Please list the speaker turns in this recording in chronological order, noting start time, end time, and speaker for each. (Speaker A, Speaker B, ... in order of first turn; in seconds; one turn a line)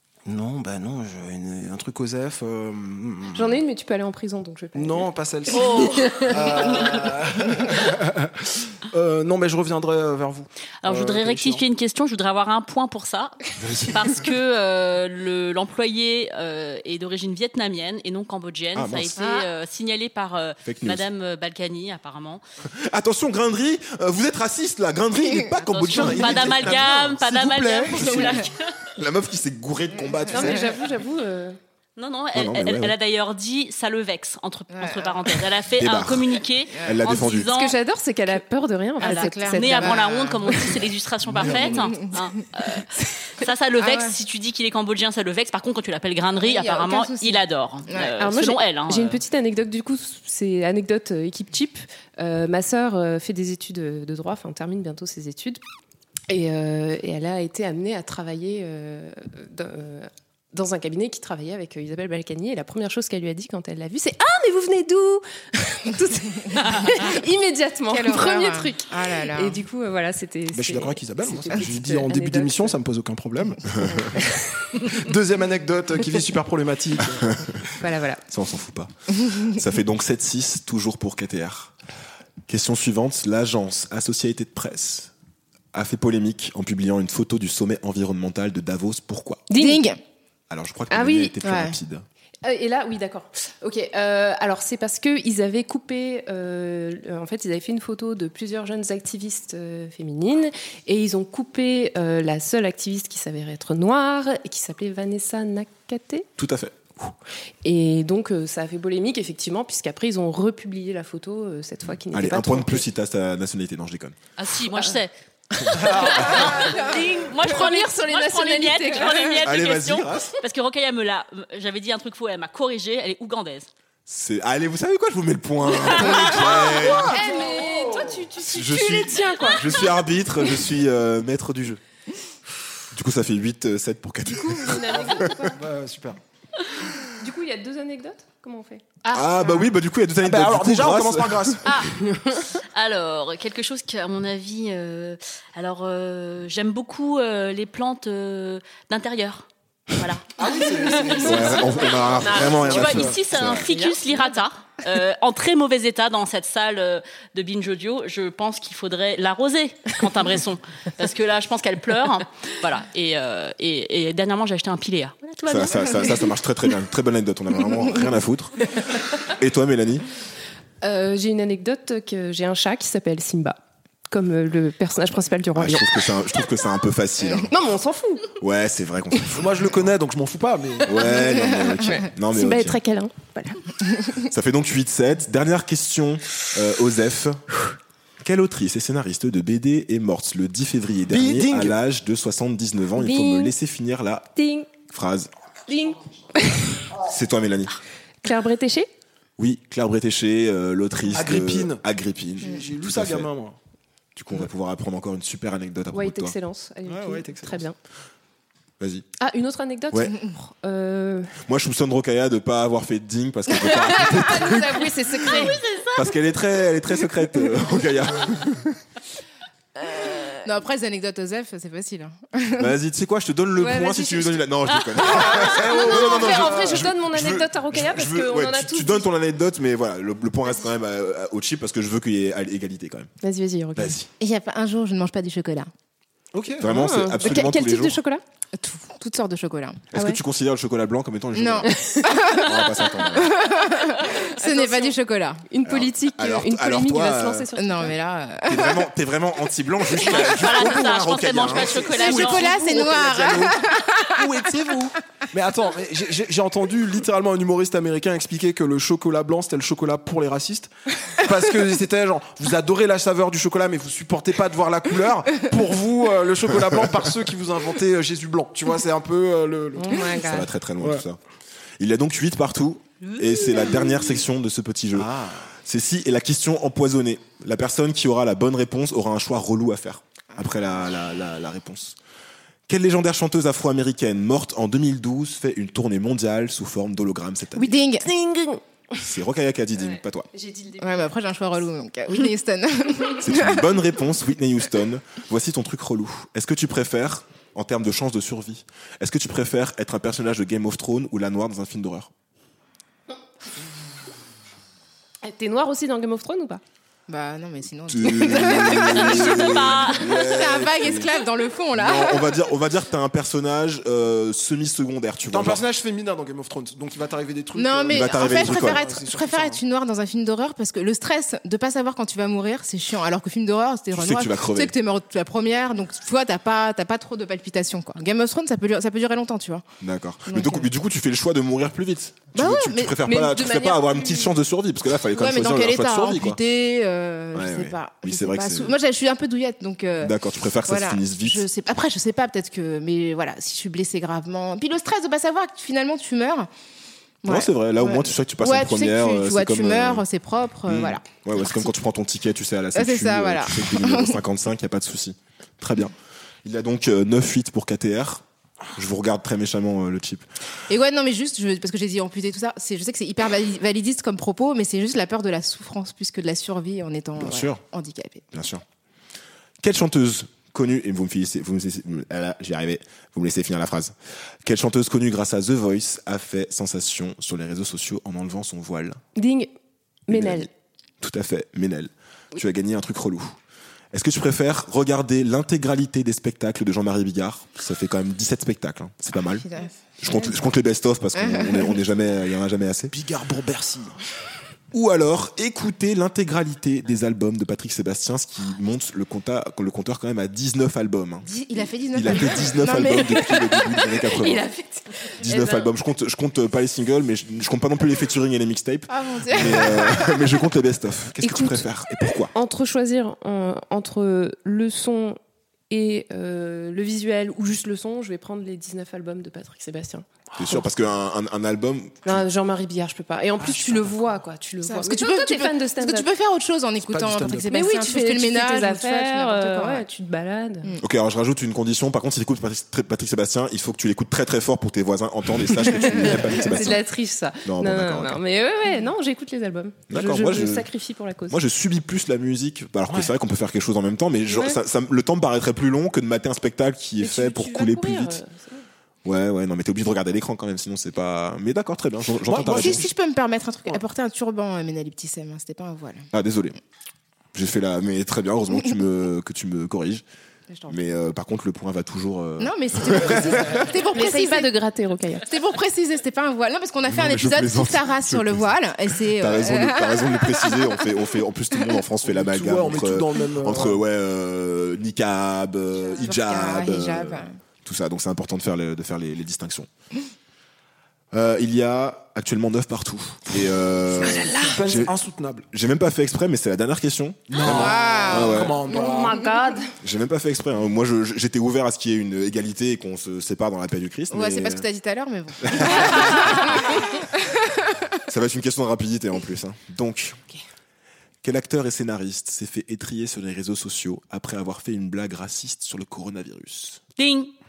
Speaker A: 0.2-3.6
Speaker B: 3.3-5.1
Speaker A: 4.7-11.6
Speaker C: 5.5-7.0
Speaker B: 5.7-6.3
Speaker C: 10.8-22.4
Speaker A: 13.7-13.9
Speaker D: 18.7-19.1
Speaker E: 19.2-19.4
Speaker D: 20.6-21.0
Speaker D: 22.7-30.7
Speaker C: 25.7-28.7
Speaker E: 25.9-26.5
Speaker E: 27.9-28.4
Speaker E: 30.0-30.6
Speaker B: 30.3-31.6
Speaker C: 32.0-37.8
Speaker D: 32.3-32.9
Speaker E: 34.7-35.4
Speaker D: 35.7-37.5
Speaker B: 37.5-40.0
Speaker E: 39.0-40.8
Speaker C: 39.0-49.2
Speaker E: 41.4-42.2
Speaker E: 43.8-44.1
Speaker E: 46.4-48.1
Speaker B: 48.2-55.6
Speaker B: 56.3-72.8
Speaker E: 67.9-69.6
Speaker A: 70.5-73.8
Speaker B: 73.8-74.7
Speaker A: 74.8-77.4
Speaker B: 77.8-78.2
Speaker D: 78.3-81.7
Speaker D: 82.5-85.1
Speaker D: 85.7-89.5
Speaker B: 89.5-89.8
Speaker E: 89.5-90.0
Speaker D: 90.5-92.0
Speaker B: 90.9-91.3
Speaker E: 91.4-91.7
Speaker B: 92.4-106.3
Speaker D: 106.4-106.8
Speaker B: 107.6-112.8
Speaker D: 112.0-114.2
Speaker C: 114.4-115.1
Speaker C: 115.7-123.7
Speaker D: 115.7-116.5
Speaker B: 115.9-116.8
Speaker B: 117.3-119.4
Speaker D: 119.4-120.3
Speaker D: 124.1-127.2
Speaker C: 125.8-127.1
Speaker B: 127.1-129.8
Speaker A: 127.2-128.2
Speaker D: 128.4-131.8
Speaker D: 132.9-135.3
Speaker B: 134.3-135.6
Speaker A: 135.2-136.2
Speaker B: 137.0-138.8
Speaker D: 139.1-141.6
Speaker A: 140.2-141.9
Speaker C: 142.5-151.5
Speaker A: 150.4-153.2
Speaker D: 151.2-153.7
Speaker C: 152.4-166.3
Speaker B: 153.7-154.2
Speaker D: 165.4-170.1
Speaker B: 170.8-175.9
Speaker D: 175.6-177.5
Speaker B: 177.5-178.3
Speaker D: 178.4-179.5
Speaker A: 179.3-181.1
Speaker D: 180.8-182.8
Speaker B: 181.8-183.6
Speaker D: 184.3-187.4
Speaker D: 188.2-194.3
Speaker A: 191.1-191.7
Speaker B: 192.9-193.5
Speaker B: 194.3-194.7
Speaker D: 194.9-195.3
Speaker B: 195.7-196.8
Speaker D: 197.0-197.7
Speaker B: 198.2-198.9
Speaker D: 199.4-203.3
Speaker A: 201.1-201.8
Speaker A: 202.4-203.6
Speaker D: 204.2-206.3
Speaker B: 205.9-207.7
Speaker A: 206.8-207.6
Speaker D: 208.8-209.1
Speaker B: 209.2-211.3
Speaker D: 211.4-218.8
Speaker B: 213.6-215.6
Speaker C: 215.2-216.2
Speaker E: 220.4-222.7
Speaker D: 222.6-233.1
Speaker B: 223.6-224.4
Speaker C: 224.7-225.5
Speaker B: 225.3-229.1
Speaker B: 233.2-234.0
Speaker D: 233.8-234.1
Speaker E: 234.2-235.7
Speaker A: 236.3-236.8
Speaker D: 236.6-238.0
Speaker B: 236.7-238.2
Speaker E: 238.5-239.9
Speaker D: 239.9-243.4
Speaker B: 239.9-240.2
Speaker E: 241.3-245.4
Speaker B: 241.6-242.2
Speaker B: 244.5-244.9
Speaker B: 245.5-247.9
Speaker D: 245.6-247.5
Speaker E: 247.6-248.8
Speaker D: 248.4-253.5
Speaker C: 249.9-252.9
Speaker E: 251.9-254.2
Speaker A: 254.0-270.1
Speaker B: 269.8-270.5
Speaker D: 270.1-271.2
Speaker D: 271.8-281.9
Speaker C: 273.0-273.9
Speaker A: 274.9-275.4
Speaker D: 282.7-287.7
Speaker E: 287.6-288.1
Speaker B: 288.0-289.0
Speaker D: 289.0-290.3
Speaker B: 289.8-291.2
Speaker E: 290.8-293.7
Speaker D: 293.2-302.1
Speaker B: 305.2-306.6
Speaker E: 307.1-312.4
Speaker D: 307.9-311.1
Speaker C: 308.7-310.1
Speaker D: 311.7-315.6
Speaker A: 315.3-319.6
Speaker E: 317.5-329.6
Speaker D: 317.9-318.8
Speaker D: 323.9-324.7
Speaker D: 329.8-336.4
Speaker E: 330.3-330.7
Speaker E: 332.3-333.0
Speaker B: 333.0-334.3
Speaker E: 335.1-340.1
Speaker D: 337.3-338.8
Speaker D: 340.0-341.4
Speaker E: 340.7-346.5
Speaker E: 347.2-351.6
Speaker D: 347.2-350.0
Speaker D: 350.6-355.9
Speaker E: 352.7-354.2
Speaker D: 356.4-358.2
Speaker D: 358.8-360.2
Speaker E: 360.7-368.3
Speaker D: 367.2-367.6
Speaker D: 368.3-368.6
Speaker D: 369.6-379.0
Speaker B: 379.1-379.5
Speaker D: 380.1-380.5
Speaker B: 380.1-380.5
Speaker D: 381.0-383.4
Speaker D: 383.9-389.4
Speaker E: 389.4-389.7
Speaker D: 390.0-392.9
Speaker E: 391.1-391.8
Speaker A: 392.9-393.9
Speaker D: 394.7-401.3
Speaker E: 401.2-403.5
Speaker D: 401.9-404.4
Speaker B: 403.3-405.7
Speaker D: 405.2-412.3
Speaker E: 408.9-410.3
Speaker B: 411.2-411.6
Speaker B: 412.3-415.2
Speaker B: 415.7-420.1
Speaker D: 420.4-422.2
Speaker B: 422.1-426.1
Speaker A: 423.5-423.8
Speaker E: 424.6-429.8
Speaker A: 426.8-427.5
Speaker B: 427.5-430.7
Speaker D: 430.8-436.8
Speaker B: 435.7-441.4
Speaker E: 435.9-436.4
Speaker D: 437.4-438.2
Speaker D: 439.9-440.7
Speaker D: 441.3-448.2
Speaker B: 444.3-444.6
Speaker B: 447.0-448.6
Speaker D: 449.0-452.9
Speaker E: 452.3-456.1
Speaker A: 452.4-452.8
Speaker D: 456.1-456.6
Speaker D: 457.3-460.0
Speaker E: 460.5-460.8
Speaker D: 460.7-463.6
Speaker E: 462.4-464.5
Speaker B: 463.9-465.2
Speaker E: 465.2-470.7
Speaker D: 466.8-479.7
Speaker A: 472.1-473.8
Speaker E: 475.8-477.4
Speaker D: 481.1-484.9
Speaker A: 484.0-485.4
Speaker D: 485.5-488.6
Speaker A: 487.3-489.2
Speaker E: 487.4-488.8
Speaker B: 488.6-489.7
Speaker D: 489.8-494.6
Speaker E: 494.1-497.8
Speaker D: 495.4-496.8
Speaker D: 498.1-500.2
Speaker D: 501.2-506.8
Speaker C: 507.0-507.3